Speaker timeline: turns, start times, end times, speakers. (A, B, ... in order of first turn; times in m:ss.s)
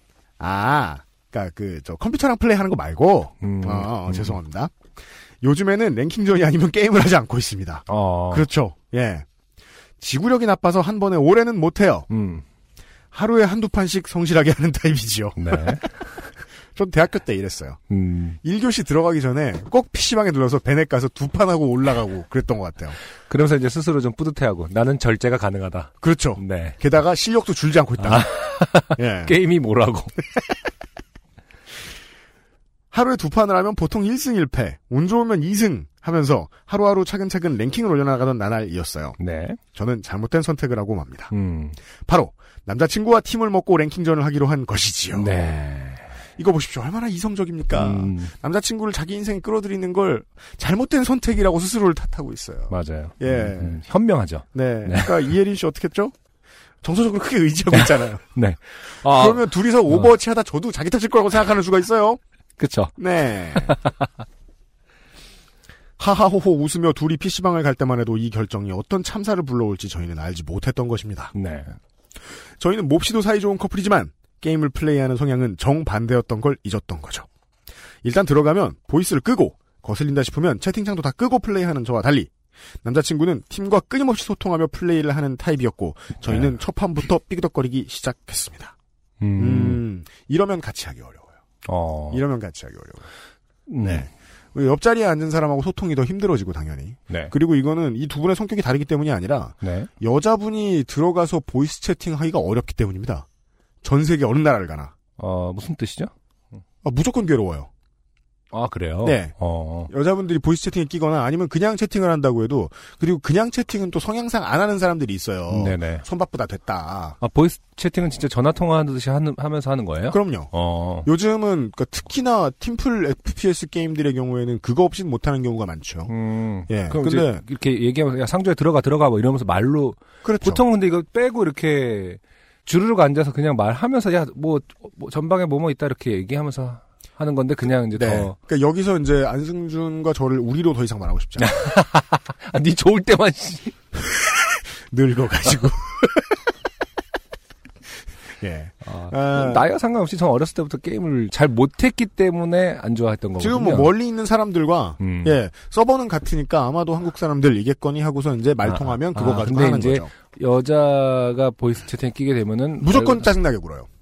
0:00.4-0:04.9 A
0:03.4-0:04.4 B
0:05.4-0:09.2 A
0:07.9-0:08.5 B
0:10.0-0:12.1 A
0:12.1-0:12.4 B
0:13.1-0:15.8 A
0:15.4-0:16.2 B
0:16.7-0:17.8 A
0:17.9-0:18.4 B
0:18.4-0:23.0 A
0:23.3-0:26.8 B
0:26.0-0:28.3 A
0:28.0-0:30.2 B
0:28.9-0:29.4 A
0:32.9-0:39.2 A
0:39.2-0:39.6 B
0:39.7-0:41.3 A
0:41.3-0:41.8 B
0:42.0-0:45.4 A
0:45.1-0:46.1 B
0:46.4-0:53.8 A
0:47.7-0:48.3 B
0:52.7-0:55.3 B
0:54.5-0:56.1 A
0:56.8-0:58.2 A
0:57.7-1:00.1 B
0:58.9-1:02.2 A
1:02.6-1:02.9 B
1:03.0-1:03.8 A
1:03.5-1:04.1 B
1:06.0-1:11.3 A
1:11.3-1:11.8 B
1:12.6-1:17.3 A
1:18.0-1:22.3 A
1:22.8-1:28.7 A
1:26.2-1:26.5 B
1:29.2-1:29.8 B
1:29.4-1:31.3 A
1:31.6-1:32.2 B
1:32.1-1:33.0 A
1:33.7-1:34.1 B
1:33.8-1:43.2 A
1:39.6-1:39.9 B
1:43.8-1:44.9 A
1:45.2-1:46.1 B
1:46.8-1:47.7 A
1:48.5-1:49.9 B
1:49.0-1:49.3 A
1:49.9-1:57.2 A
1:55.5-1:56.0 B
1:57.2-2:01.1 B
2:00.1-2:00.5 A
2:01.0-2:06.1 A
2:06.1-2:18.3 B
2:06.7-2:07.4 A
2:10.2-2:10.6 A
2:17.9-2:21.5 A
2:21.4-2:23.7 B
2:24.3-2:26.2 A
2:28.4-2:29.6 A
2:28.8-2:33.9 B
2:33.4-2:40.1 A
2:35.0-2:35.4 B
2:38.6-2:43.3 B
2:42.8-2:43.9 A